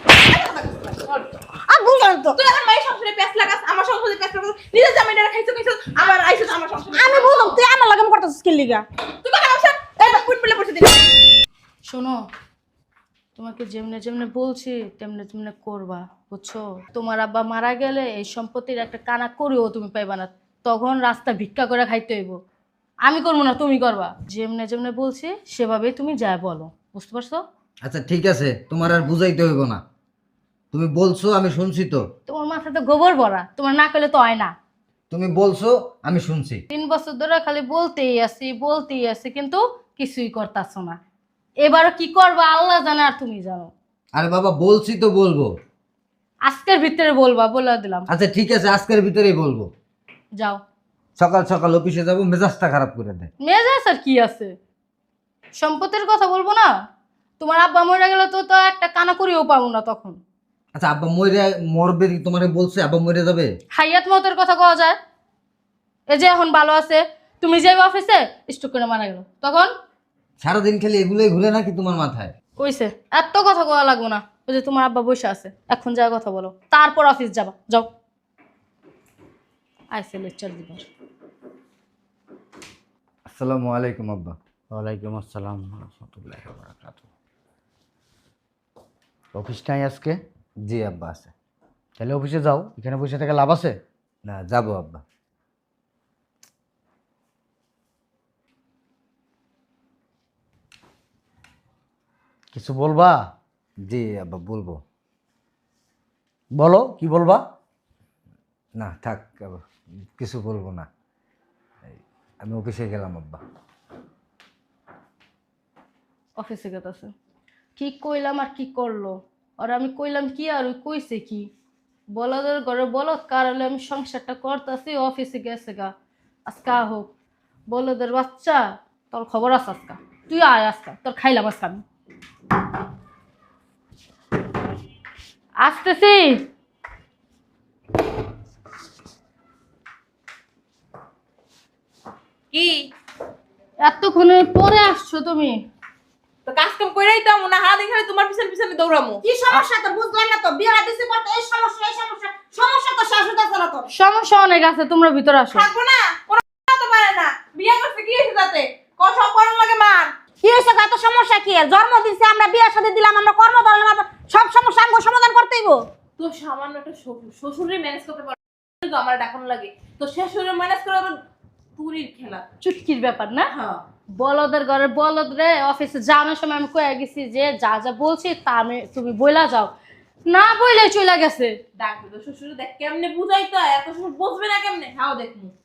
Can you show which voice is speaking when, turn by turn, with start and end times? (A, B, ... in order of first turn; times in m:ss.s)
0:00.3-0:01.3 A
0:01.7-0:02.4 B
0:02.3-0:07.6 A
0:06.9-0:08.8 B
0:09.2-0:11.0 A
0:11.8-0:12.2 C
0:13.4-0:22.4 C
0:23.0-0:27.4 C
0:27.8-0:29.8 D
0:30.7-0:32.0 D
0:32.3-0:34.5 C
0:35.1-0:36.6 D
0:36.7-0:41.0 C
0:41.6-0:43.7 C
0:44.1-0:45.5 D
0:46.4-0:48.1 C
0:48.1-0:49.7 D
0:50.4-0:50.6 C
0:51.2-0:53.3 D
0:53.4-0:54.5 C
0:55.6-0:56.7 C
0:57.4-1:00.2 C
1:00.7-1:03.5 D
1:03.7-1:05.0 C
1:06.1-1:09.7 C
1:10.4-1:12.3 D
1:12.6-1:17.9 C
1:19.9-1:20.8 C
1:23.3-1:24.4 D
1:24.7-1:27.1 E
1:29.3-1:30.2 E
1:30.7-1:31.3 D
1:32.0-1:33.8 E
1:34.2-1:35.0 D
1:42.5-1:43.2 E
1:43.8-1:44.8 D
1:46.5-1:47.4 E
1:48.8-1:49.6 D
1:50.2-1:50.9 D
1:51.8-1:53.4 D
1:56.4-1:57.1 C
1:57.8-2:01.5 C
2:02.1-2:05.9 C
2:06.5-2:07.1 C
2:07.7-2:11.8 C
2:15.6-2:16.4 C
2:22.5-2:22.9 A
2:23.8-2:25.6 C
2:26.4-2:29.2 A
2:29.2-2:33.9 B
2:33.9-2:35.7 C
2:35.5-2:40.1 A
2:40.4-2:45.8 B
2:46.2-2:51.2 A
2:51.8-2:52.4 A
2:52.6-2:53.5 C
2:53.5-2:53.8 A
2:54.2-2:59.7 C
3:00.3-3:01.6 C
3:01.8-3:05.5 A